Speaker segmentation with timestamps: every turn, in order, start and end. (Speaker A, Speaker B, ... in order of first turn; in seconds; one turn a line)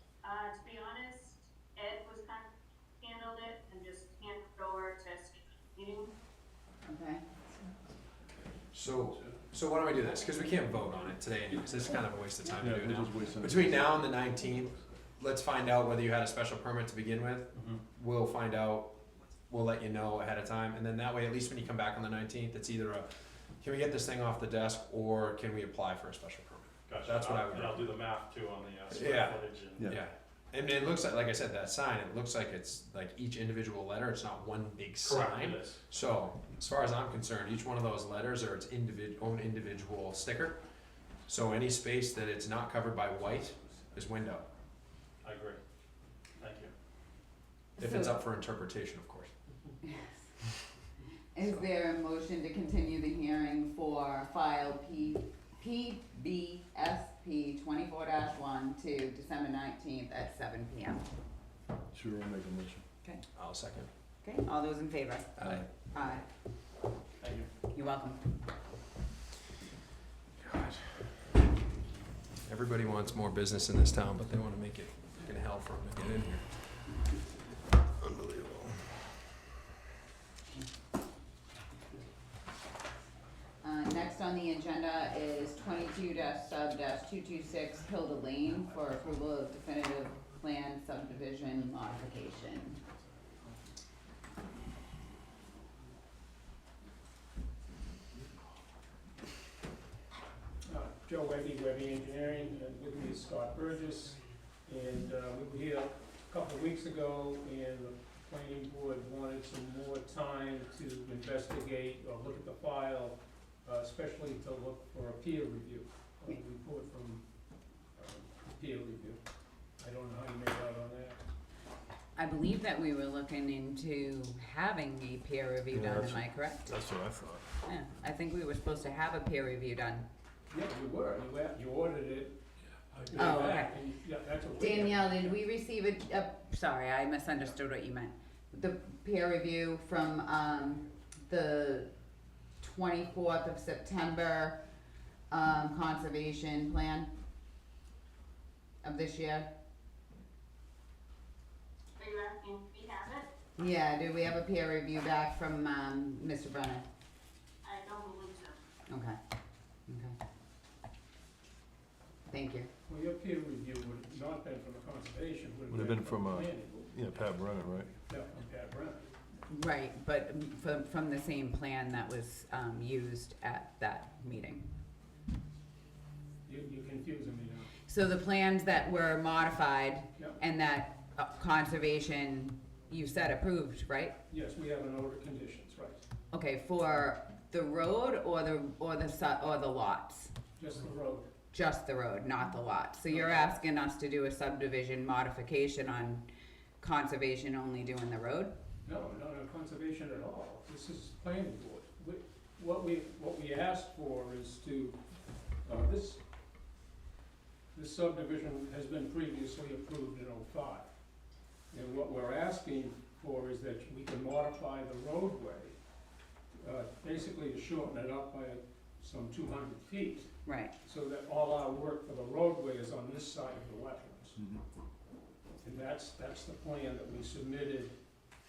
Speaker A: 0.2-2.5
Speaker A: 3.0-6.1
Speaker B: 6.9-7.2
Speaker C: 8.7-18.9
Speaker D: 12.6-14.0
Speaker E: 17.5-17.8
Speaker C: 19.5-27.8
Speaker E: 26.9-29.9
Speaker C: 28.9-40.6
Speaker E: 35.0-35.8
Speaker C: 41.3-44.5
Speaker E: 45.2-45.6
Speaker E: 46.4-46.7
Speaker B: 47.8-48.2
Speaker C: 47.8-49.3
Speaker B: 49.9-50.1
Speaker B: 51.3-61.0
Speaker D: 61.9-62.8
Speaker C: 63.4-63.9
Speaker B: 64.2-66.3
Speaker C: 65.4-65.7
Speaker E: 67.2-67.5
Speaker B: 67.7-68.2
Speaker C: 70.5-70.8
Speaker C: 72.5-76.7
Speaker C: 78.0-78.7
Speaker B: 83.6-92.8
Speaker F: 100.7-117.2
Speaker F: 118.0-119.2
Speaker F: 119.8-121.2
Speaker B: 122.2-126.8
Speaker D: 125.7-127.5
Speaker B: 127.7-130.1
Speaker F: 130.5-132.4
Speaker F: 132.9-135.4
Speaker B: 133.2-133.7
Speaker B: 134.6-141.9
Speaker B: 142.6-144.6
Speaker B: 145.3-147.1
Speaker B: 148.8-149.5
Speaker A: 152.0-153.3
Speaker B: 153.6-156.8
Speaker A: 157.6-158.6
Speaker B: 158.9-159.2
Speaker B: 159.9-160.2
Speaker B: 162.3-162.7
Speaker F: 162.9-167.0
Speaker D: 165.7-167.9
Speaker F: 168.1-169.1
Speaker B: 169.5-174.7
Speaker F: 176.4-177.7
Speaker B: 177.9-184.2
Speaker F: 184.3-186.0
Speaker B: 186.3-190.3
Speaker F: 190.6-191.3
Speaker B: 191.5-196.2
Speaker F: 193.1-193.6
Speaker B: 196.8-198.5
Speaker F: 198.8-205.0
Speaker F: 205.7-206.2
Speaker F: 207.7-210.9
Speaker F: 211.7-215.8
Speaker F: 216.5-224.4
Speaker B: 220.5-220.7
Speaker F: 225.6-227.9